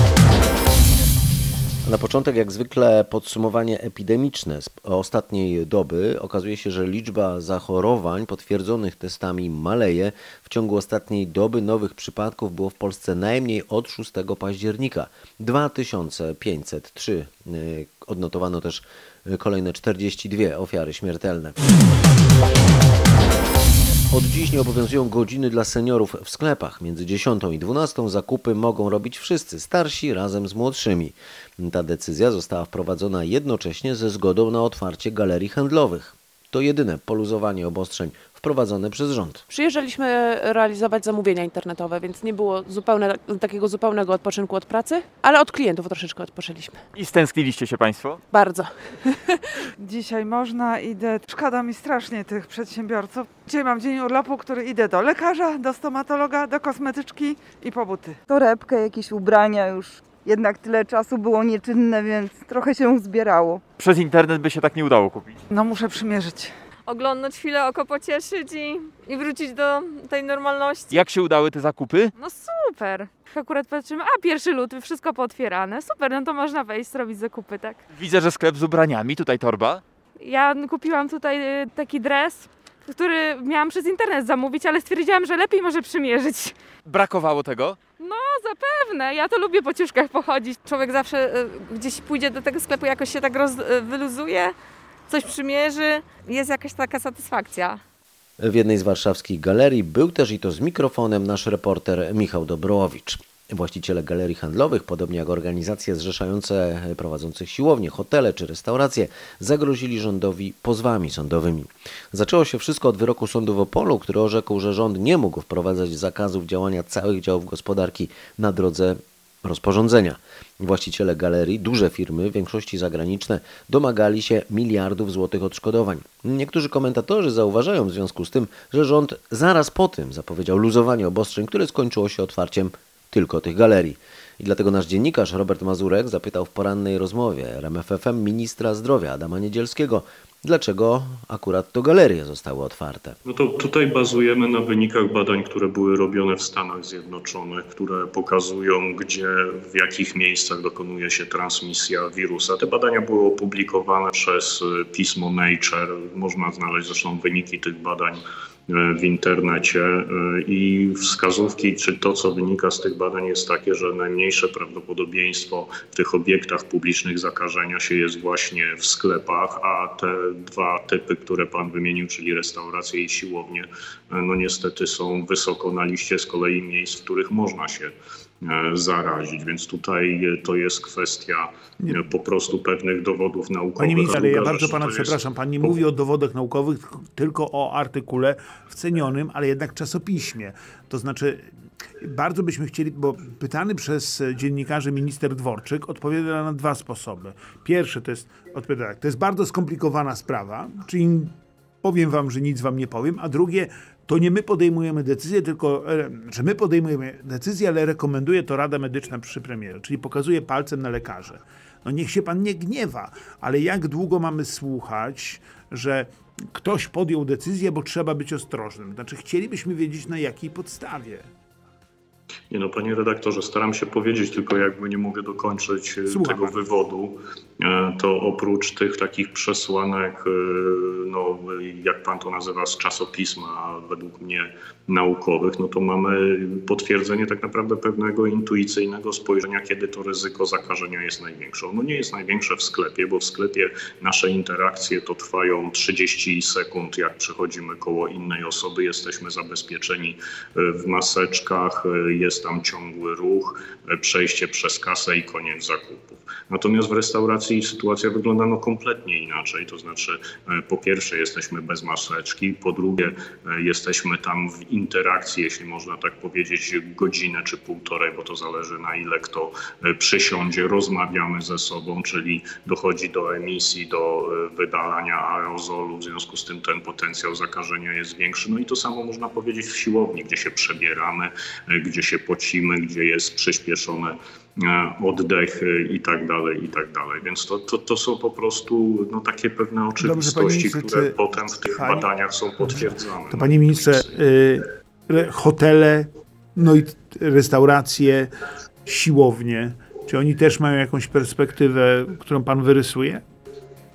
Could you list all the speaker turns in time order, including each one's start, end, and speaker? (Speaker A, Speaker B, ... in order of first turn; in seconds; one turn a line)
Speaker A: 1.8-21.6
Speaker A: 24.1-39.4
Speaker B: 39.5-46.8
Speaker C: 47.0-48.2
Speaker B: 48.3-49.0
Speaker D: 49.8-58.2
Speaker E: 58.3-58.6
Speaker E: 59.4-59.7
Speaker E: 60.4-63.5
Speaker C: 63.8-65.3
Speaker D: 65.5-66.5
Speaker F: 66.9-71.0
Speaker C: 70.9-72.0
Speaker F: 72.2-77.8
Speaker C: 78.0-79.8
Speaker F: 80.2-86.6
Speaker C: 86.9-87.7
Speaker F: 88.0-94.5
Speaker F: 95.1-97.8
Speaker A: 98.4-143.2
Speaker G: 143.3-185.8
Speaker H: 183.8-191.5
Speaker H: 192.0-221.3
Speaker G: 222.5-294.1
Speaker H: 226.1-226.6
Speaker H: 290.0-298.3
Speaker H: 298.9-303.2